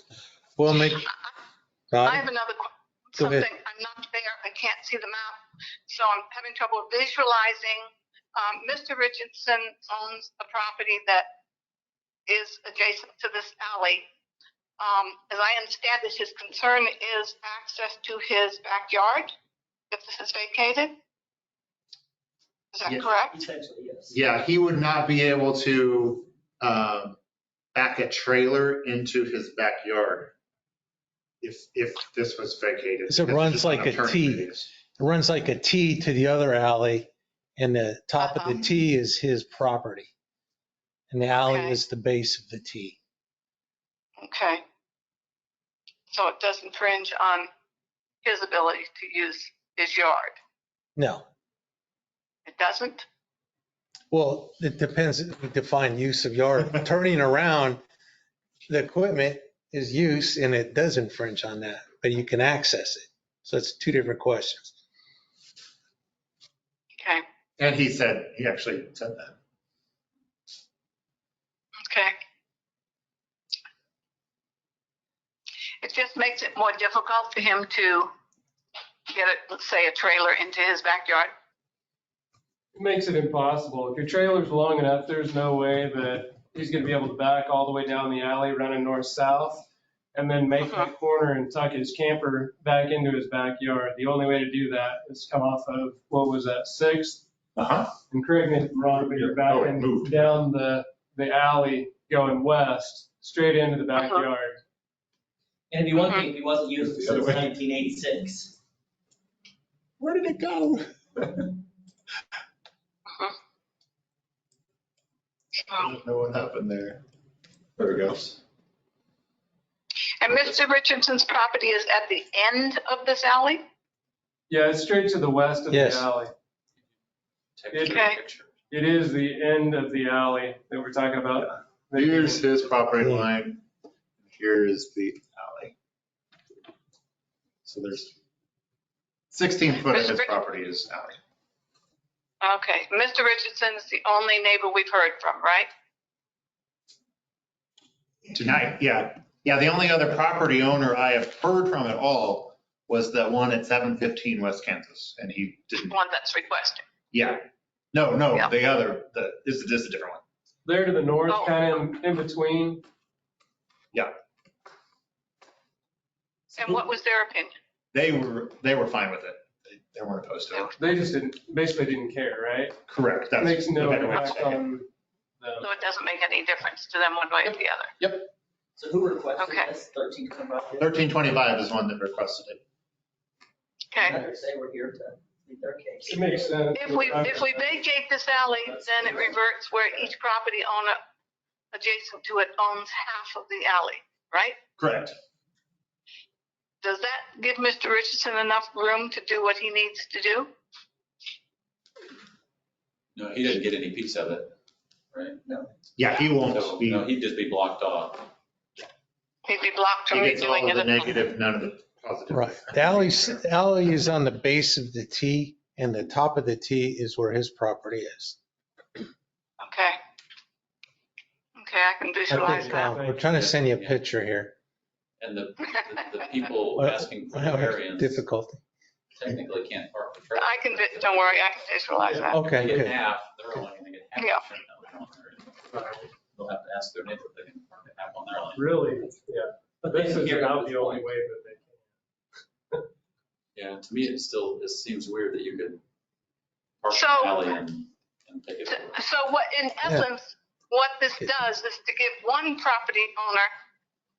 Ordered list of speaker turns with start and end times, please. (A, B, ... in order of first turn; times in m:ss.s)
0:00.6-0:01.1 A
0:00.7-0:01.3 B
0:01.9-0:02.3 A
0:02.0-0:11.3 B
0:03.2-0:03.4 A
0:12.3-0:14.0 B
0:14.8-0:19.3 B
0:19.9-0:20.9 B
0:22.7-0:23.4 B
0:22.8-0:24.1 C
0:24.1-0:27.2 D
0:27.7-0:30.3 D
0:31.4-0:34.7 D
0:33.1-0:40.1 A
0:38.2-0:38.6 B
0:41.1-0:43.0 A
0:41.5-0:41.8 B
0:44.2-0:44.6 B
0:46.1-0:47.5 B
0:48.2-0:50.4 B
0:51.0-0:51.2 A
0:52.4-0:53.0 B
0:54.1-0:57.8 A
0:58.7-1:04.7 A
1:07.6-1:09.4 D
1:11.9-1:12.1 B
1:15.8-1:18.1 B
1:19.1-1:21.3 B
1:22.7-1:37.2 E
1:30.6-1:30.9 B
1:37.6-1:37.9 D
1:38.1-1:44.6 E
1:39.0-1:40.4 D
1:43.9-1:44.3 B
1:45.7-1:48.5 C
1:46.8-1:47.4 D
1:50.0-1:51.3 D
1:55.8-1:57.0 D
1:57.8-1:58.3 D
2:00.2-2:03.6 B
2:04.5-2:06.3 E
2:05.7-2:06.1 A
2:07.6-2:08.5 F
2:07.7-2:08.0 E
2:07.8-2:08.2 B
2:08.7-2:12.4 E
2:11.9-2:13.6 D
2:13.0-2:13.3 A
2:14.2-2:15.7 D
2:17.6-2:18.1 D
2:19.3-2:21.2 D
2:19.8-2:20.4 B
2:22.4-2:25.7 B
2:28.3-2:35.9 D
2:35.9-2:36.8 B
2:37.1-2:40.2 D
2:40.6-2:42.8 E
2:41.3-2:41.7 B
2:46.6-2:47.5 B
2:47.9-2:50.7 D
2:50.5-2:51.0 B
2:50.8-2:52.8 E
2:52.9-2:54.6 D
2:53.4-2:54.9 E
2:55.4-2:55.7 E
2:55.6-2:57.9 B
2:57.4-2:58.3 E
2:58.8-3:00.9 C
2:59.4-2:59.7 B
3:00.8-3:02.6 D
3:03.9-3:04.2 B
3:04.0-3:10.1 C
3:06.0-3:07.7 E
3:06.7-3:11.0 B
3:11.7-3:14.6 B
3:14.8-3:15.1 D
3:16.8-3:20.5 B
3:23.1-3:24.5 F
3:25.1-3:25.4 F
3:26.0-3:27.1 D
3:26.4-3:28.3 F
3:29.4-3:31.1 B
3:30.1-3:33.4 D
3:32.3-3:38.4 A
3:39.6-3:40.0 B
3:41.6-3:42.8 B
3:42.3-3:44.5 A
3:42.3-3:43.3 E
3:43.1-3:44.0 F
3:45.2-3:48.2 F
3:46.8-3:48.6 A
3:49.1-3:51.5 F
3:50.3-3:52.4 B
3:52.3-3:52.9 A
3:52.4-3:55.7 F
3:54.2-3:54.4 B
3:55.7-3:56.0 E
3:56.3-3:58.7 F
3:58.5-4:01.8 E
3:59.8-4:01.0 C
4:03.5-4:05.8 F
4:06.8-4:08.9 F
4:06.9-4:07.4 B
4:08.6-4:13.5 B